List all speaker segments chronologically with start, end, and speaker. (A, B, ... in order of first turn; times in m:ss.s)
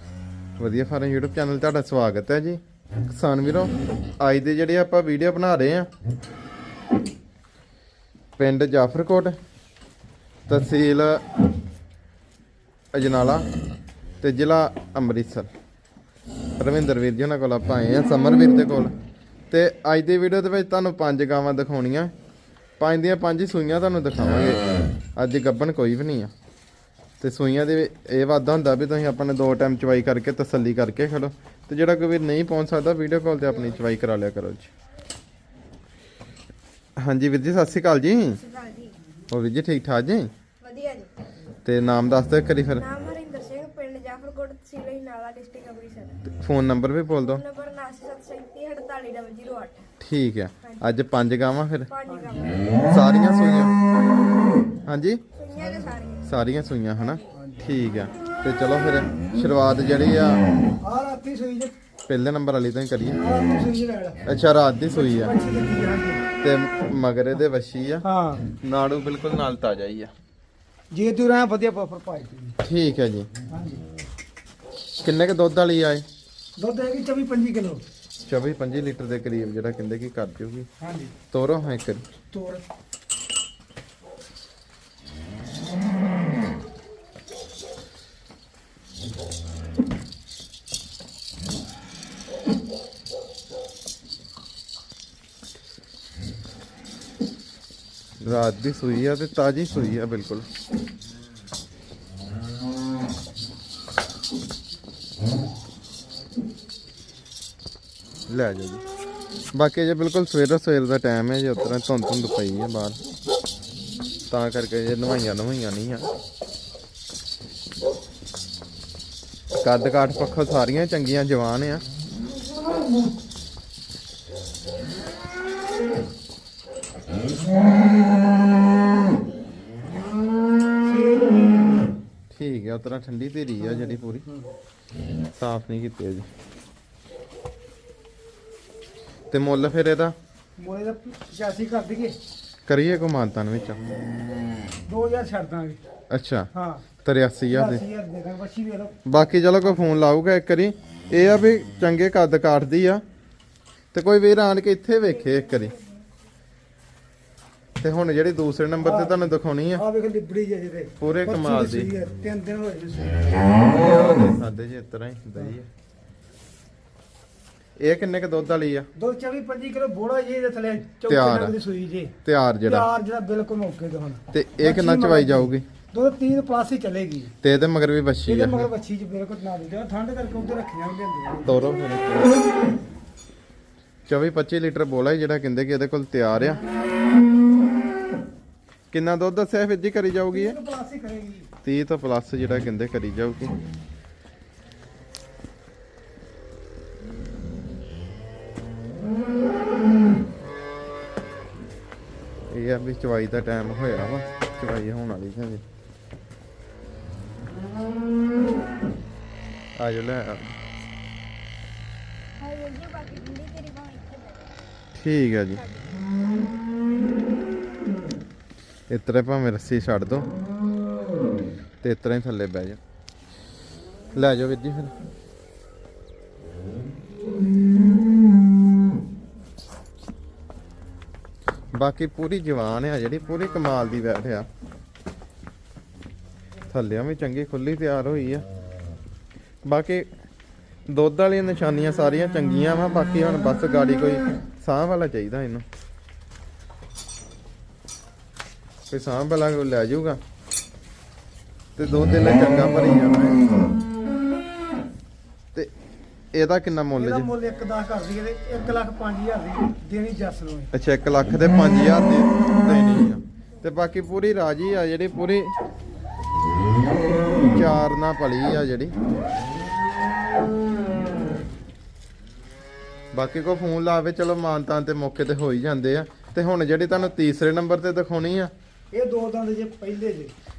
0:00.6-0:05.9 A
0:08.4-0:09.4 A
0:10.5-0:11.2 A
0:12.9-0:13.4 A
0:14.2-0:15.5 A
0:16.6-0:18.9 A
0:19.5-0:22.1 A
0:22.8-0:24.6 A
0:25.2-0:26.3 A
0:27.2-0:34.7 A
0:37.0-0:38.4 A
0:38.4-0:39.0 B
0:39.3-0:40.3 A
0:40.6-0:41.1 B
0:41.6-0:42.9 A
0:42.8-0:46.2 B
0:46.2-0:47.4 A
0:47.1-0:49.9 B
0:50.0-0:51.9 A
0:51.9-0:52.9 B
0:52.1-0:52.5 C
0:52.8-0:53.7 A
0:54.8-0:55.2 A
0:55.4-0:56.3 B
0:56.2-1:00.4 A
0:57.0-0:57.3 B
0:57.3-0:57.7 C
1:00.8-1:01.7 C
1:02.1-1:03.2 A
1:03.2-1:04.2 C
1:04.3-1:05.4 A
1:04.9-1:06.2 C
1:06.4-1:08.0 A
1:08.0-1:08.5 C
1:08.6-1:10.1 A
1:10.9-1:12.6 C
1:12.6-1:13.3 A
1:13.5-1:13.8 C
1:15.0-1:16.0 A
1:16.6-1:17.8 C
1:18.2-1:20.7 A
1:20.8-1:21.2 C
1:21.3-1:22.0 A
1:22.3-1:22.6 C
1:38.2-1:40.5 A
1:48.3-1:48.8 A
1:49.5-1:53.0 A
1:54.3-1:56.1 A
1:59.6-2:01.8 A
2:10.8-2:11.8 C
2:12.3-2:14.2 A
2:13.6-2:14.5 C
2:15.4-2:16.3 A
2:19.3-2:20.1 A
2:20.6-2:22.2 C
2:22.7-2:23.9 A
2:24.9-2:25.8 C
2:26.1-2:26.5 A
2:26.5-2:26.9 C
2:27.0-2:27.8 A
2:27.5-2:29.0 C
2:29.1-2:33.0 A
2:33.9-2:35.8 A
2:35.1-2:36.1 B
2:37.8-2:39.8 A
2:38.8-2:39.2 C
2:39.8-2:43.7 C
2:41.0-2:41.9 A
2:43.7-2:45.7 A
2:47.8-2:48.9 A
2:49.0-2:52.2 C
2:51.1-2:51.5 A
2:52.2-2:52.9 A
2:52.7-2:57.3 C
2:54.3-2:55.7 A
2:57.4-2:58.7 A
2:58.3-3:01.6 C
3:01.5-3:02.4 A
3:04.1-3:06.6 A
3:08.9-3:10.6 A
3:10.3-3:11.5 C
3:11.6-3:13.6 A
3:22.5-3:25.6 A
3:29.8-3:30.5 A
3:32.4-3:34.5 B
3:35.0-3:35.6 A
3:35.6-3:36.0 B
3:38.9-3:40.3 A
3:41.8-3:42.8 A
3:44.1-3:44.9 A
3:51.7-3:54.5 A
3:56.7-3:58.4 A
3:59.6-4:00.1 A
4:00.9-4:05.6 A
4:08.9-4:10.2 A
4:11.8-4:13.4 A
4:16.3-4:17.3 A
4:17.0-4:20.7 C
4:20.7-4:25.6 A
4:27.4-4:29.0 A
4:33.1-4:38.5 A
4:38.9-4:40.3 C